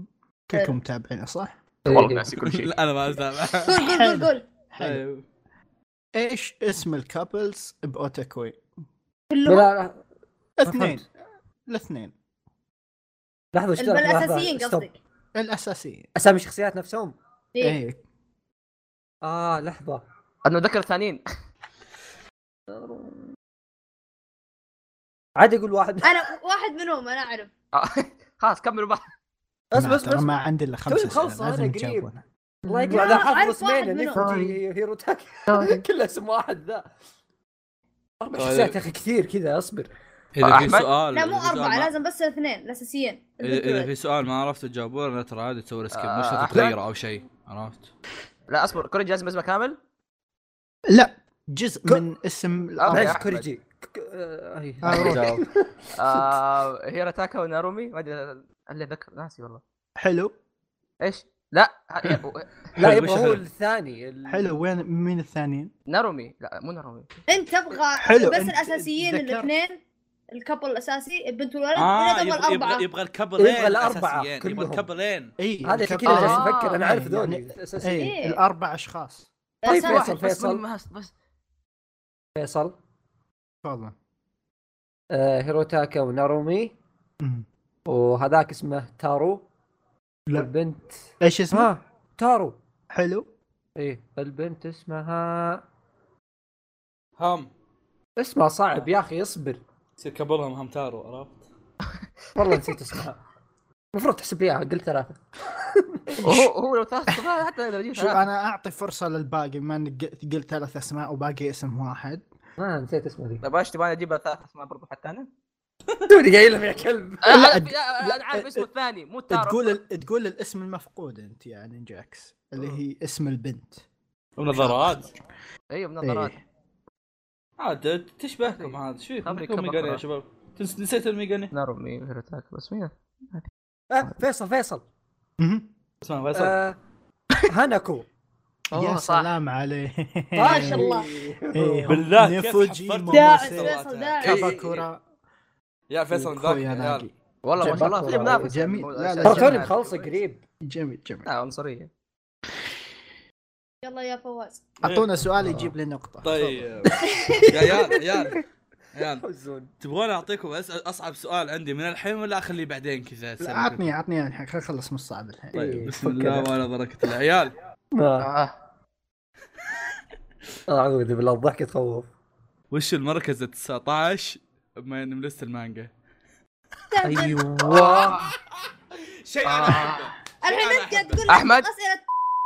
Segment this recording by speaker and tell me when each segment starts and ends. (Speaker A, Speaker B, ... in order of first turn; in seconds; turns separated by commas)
Speaker A: 0.5-1.5, Speaker B: 1.9-2.3, Speaker C: 1.9-2.7, Speaker D: 2.4-3.8, Speaker E: 3.6-4.5, Speaker A: 3.7-5.0, Speaker D: 4.8-5.2, Speaker A: 6.1-8.6, Speaker E: 9.3-9.7, Speaker B: 9.5-10.0, Speaker A: 10.6-11.1, Speaker B: 10.6-11.0, Speaker A: 11.7-12.1, Speaker B: 13.5-14.9, Speaker E: 13.8-15.0, Speaker A: 15.3-16.1, Speaker B: 16.1-17.1, Speaker E: 17.5-17.8, Speaker A: 17.6-18.0, Speaker B: 19.2-20.0, Speaker C: 20.4-21.2, Speaker B: 22.7-23.2, Speaker B: 25.4-26.2, Speaker E: 26.0-27.5, Speaker C: 27.7-29.1, Speaker B: 29.7-32.1, Speaker A: 29.7-32.2, Speaker B: 32.6-36.8, Speaker C: 32.7-33.2, Speaker E: 32.9-34.3, Speaker C: 34.1-34.6, Speaker C: 35.5-35.8, Speaker B: 38.2-39.9, Speaker D: 38.3-38.8, Speaker D: 40.3-41.9, Speaker C: 40.4-40.9, Speaker E: 41.1-43.9, Speaker D: 43.4-47.9, Speaker C: 45.9-46.8, Speaker C: 48.5-49.8, Speaker A: 50.9-53.2, Speaker C: 52.8-53.5, Speaker B: 52.9-55.5, Speaker A: 54.8-55.3, Speaker D: 54.9-55.4, Speaker C: 56.0-59.6, Speaker B: 56.1-56.3, Speaker A: 60.0-60.3, Speaker C: 61.0-62.5, Speaker D: 62.8-63.4, Speaker B: 62.8-64.5, Speaker A: 64.2-65.7, Speaker C: 65.9-67.1, Speaker E: 67.3-69.8, Speaker A: 68.0-69.5, Speaker E: 70.3-72.8, Speaker D: 71.8-75.3, Speaker B: 73.4-74.8, Speaker A: 75.4-79.3, Speaker B: 75.6-78.1, Speaker C: 76.0-76.8, Speaker E: 78.0-78.4, Speaker E: 79.6-80.1, Speaker C: 79.7-81.1, Speaker B: 79.7-80.6, Speaker B: 82.3-82.8, Speaker A: 83.6-83.9, Speaker B: 85.1-86.7, Speaker A: 87.2-87.5, Speaker B: 87.8-89.4, Speaker B: 90.3-92.6, Speaker A: 91.2-91.7, Speaker A: 92.9-93.3, Speaker B: 93.8-95.6, Speaker D: 97.2-97.5, Speaker B: 98.2-99.6, Speaker D: 100.0-101.4, Speaker B: 102.3-103.2, Speaker B: 103.9-106.5, Speaker C: 106.2-108.2, Speaker A: 107.9-112.2, Speaker B: 112.6-113.4, Speaker C: 113.4-115.3, Speaker B: 116.1-117.3, Speaker C: 117.2-119.8, Speaker A: 117.3-118.7, Speaker A: 119.3-123.8, Speaker D: 124.4-125.1, Speaker A: 124.5-125.0, Speaker C: 125.7-126.3, Speaker A: 126.0-126.4, Speaker D: 127.6-131.5, Speaker C: 128.6-130.0, Speaker C: 131.5-133.5, Speaker B: 133.9-134.8, Speaker A: 135.4-135.7, Speaker D: 136.0-136.6, Speaker B: 136.3-136.8, Speaker B: 137.5-138.1, Speaker C: 138.7-139.3, Speaker A: 138.7-140.9, Speaker B: 140.3-142.1, Speaker E: 140.4-141.1, Speaker A: 141.5-145.0, Speaker D: 141.9-144.6, Speaker E: 143.1-144.5, Speaker C: 144.2-144.8, Speaker D: 145.9-147.1, Speaker A: 146.1-149.7, Speaker C: 147.4-150.2, Speaker B: 147.6-148.6, Speaker B: 149.2-150.4, Speaker A: 150.6-151.2, Speaker C: 151.2-151.9, Speaker E: 153.8-154.7, Speaker D: 154.8-155.1, Speaker A: 154.8-156.7, Speaker B: 155.4-155.7, Speaker D: 156.2-158.4, Speaker E: 157.0-157.9, Speaker D: 158.9-159.2, Speaker B: 159.2-159.7, Speaker D: 159.8-163.9, Speaker A: 163.4-165.7, Speaker B: 165.5-166.5, Speaker D: 165.5-167.5, Speaker B: 167.9-168.3, Speaker C: 168.2-168.5, Speaker B: 170.7-172.1, Speaker D: 172.7-175.9, Speaker E: 176.9-177.9, Speaker B: 177.0-178.2, Speaker D: 177.7-178.3, Speaker D: 179.0-181.3, Speaker C: 179.4-180.1, Speaker E: 180.4-182.0, Speaker C: 181.3-181.7